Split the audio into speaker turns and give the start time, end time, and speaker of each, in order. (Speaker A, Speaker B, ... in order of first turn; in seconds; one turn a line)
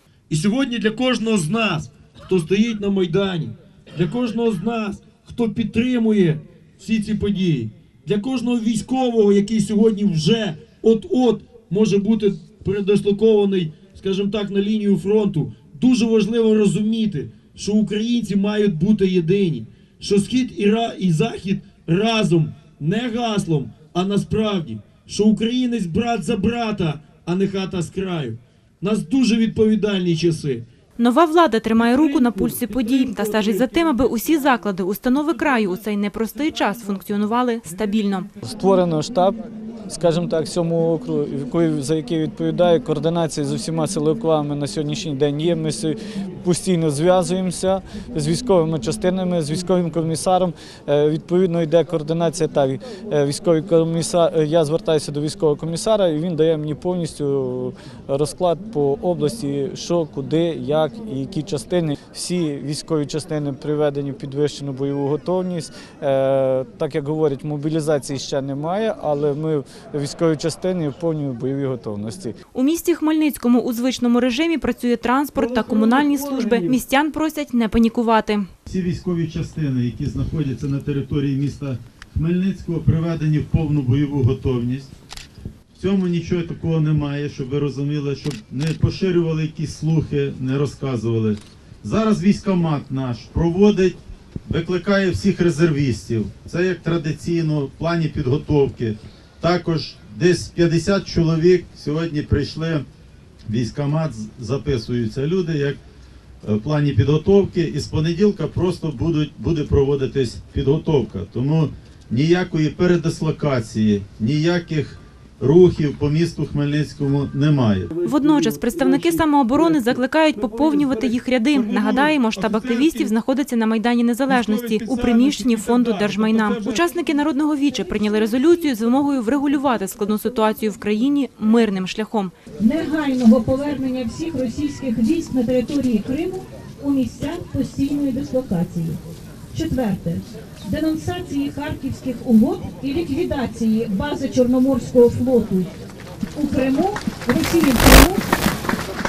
Speaker A: 0.3-30.6
Speaker B: 31.0-38.3
Speaker A: 31.8-33.6
Speaker C: 38.4-72.3
Speaker B: 72.5-78.5
Speaker A: 75.3-76.8
Speaker D: 78.7-84.9
Speaker D: 85.7-102.8
Speaker D: 103.5-105.8
Speaker D: 106.4-117.9
Speaker A: 117.9-123.1
Speaker B: 118.0-132.3
Speaker A: 124.3-126.9
Speaker E: 132.6-139.0
Speaker E: 139.5-145.7
Speaker E: 146.3-148.2